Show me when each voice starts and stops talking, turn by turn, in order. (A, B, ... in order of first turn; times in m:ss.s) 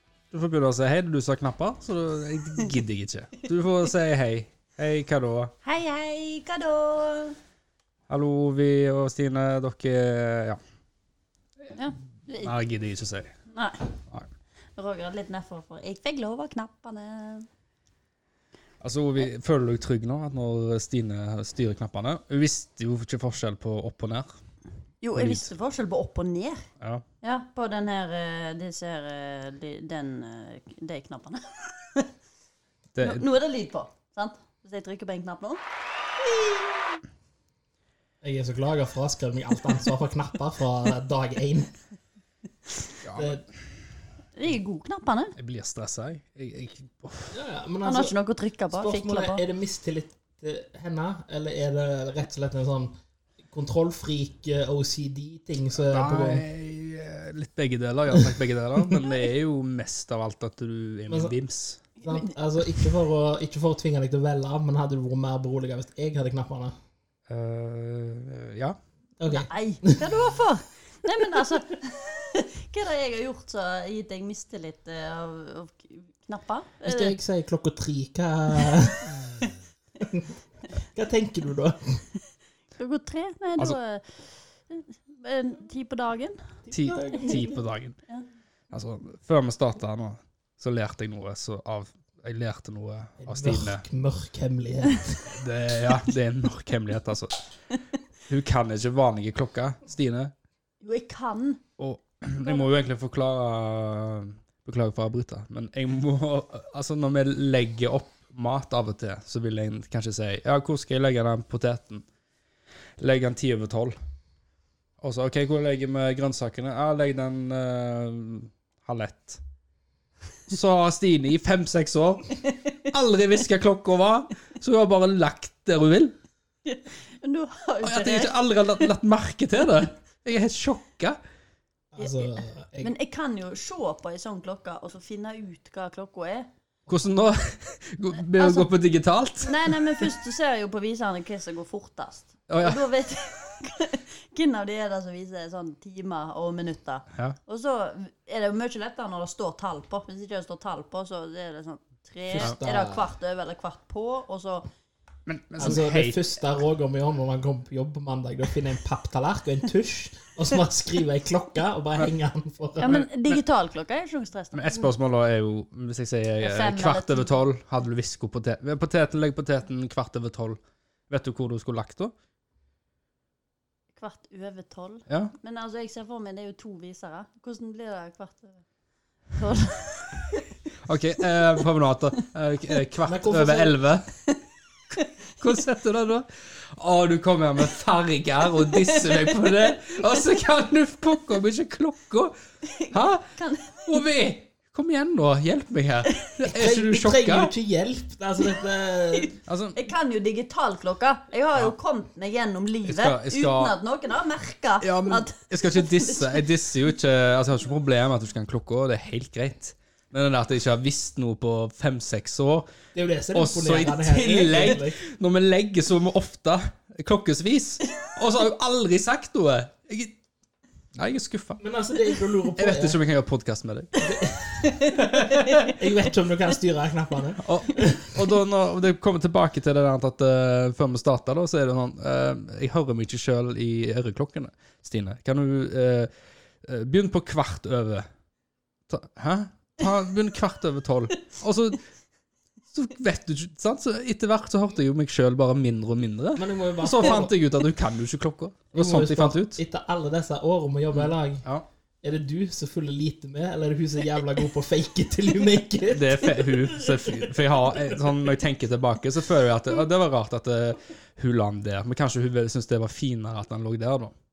0:00.3-0:05.5 A
0:05.6-0:07.4 B
0:08.1-0:10.6 A
0:11.8-0:12.5 B
0:12.4-0:13.3 A
0:13.5-0:13.9 B
0:14.8-0:17.5 B
0:18.8-0:24.3 A
0:25.0-0:26.6 B
0:25.2-0:25.5 A
0:27.2-0:32.1 B
0:32.9-0:33.2 A
0:33.0-0:35.6 B
0:36.2-0:37.0 B
0:38.2-0:41.7 C
0:43.0-0:43.4 A
0:43.2-0:43.4 C
0:44.4-0:45.3 B
0:45.4-0:47.4 A
0:47.3-0:48.1 C
0:47.8-0:49.4 B
0:48.7-0:52.9 C
0:53.5-0:56.4 C
0:55.8-1:01.8 A
1:01.1-1:01.3 C
1:02.0-1:02.9 B
1:02.0-1:06.7 C
1:07.3-1:08.8 A
1:09.2-1:10.4 C
1:09.3-1:17.1 B
1:16.8-1:19.1 C
1:20.0-1:22.0 C
1:22.8-1:26.6 B
1:26.7-1:27.6 C
1:26.7-1:28.0 A
1:28.7-1:33.8 A
1:33.2-1:35.4 C
1:35.3-1:37.4 A
1:38.3-1:40.3 A
1:40.8-1:41.6 B
1:41.8-1:52.0 A
1:53.0-1:54.0 A
1:55.0-1:59.4 A
2:00.5-2:06.2 A
2:06.7-2:08.9 B
2:07.8-2:11.2 A
2:11.9-2:12.9 C
2:12.0-2:16.5 B
2:16.9-2:20.0 A
2:18.3-2:18.7 B
2:19.4-2:34.7 B
2:22.5-2:22.8 A
2:32.3-2:33.0 C
2:35.3-2:36.2 A
2:35.6-2:43.0 C
2:42.8-2:44.9 B
2:42.8-2:43.4 A
2:44.5-2:52.1 A
2:46.4-2:47.3 B
2:54.0-2:58.6 B
2:55.1-2:55.3 A
2:59.3-3:00.4 B
3:00.8-3:04.0 A
3:03.0-3:03.8 C
3:05.4-3:12.4 A
3:08.6-3:10.4 B
3:12.7-3:14.0 B
3:12.9-3:17.5 A
3:16.5-3:19.3 C
3:19.1-3:26.4 B
3:19.5-3:19.8 A
3:22.9-3:23.8 A
3:24.8-3:32.7 A
3:32.9-3:35.0 C
3:33.3-3:40.1 A
3:41.0-3:41.6 A
3:41.6-3:43.0 C
3:42.6-3:44.0 A
3:44.0-3:45.0 C
3:44.6-3:45.8 B
3:45.2-3:45.7 A
3:45.7-3:48.2 C
3:47.4-3:56.1 A
3:56.6-3:58.1 A
3:58.9-4:01.8 A
4:02.7-4:09.6 A
4:06.4-4:07.3 C
4:08.7-4:11.4 C
4:10.9-4:11.6 A
4:12.0-4:18.0 C
4:15.9-4:24.1 A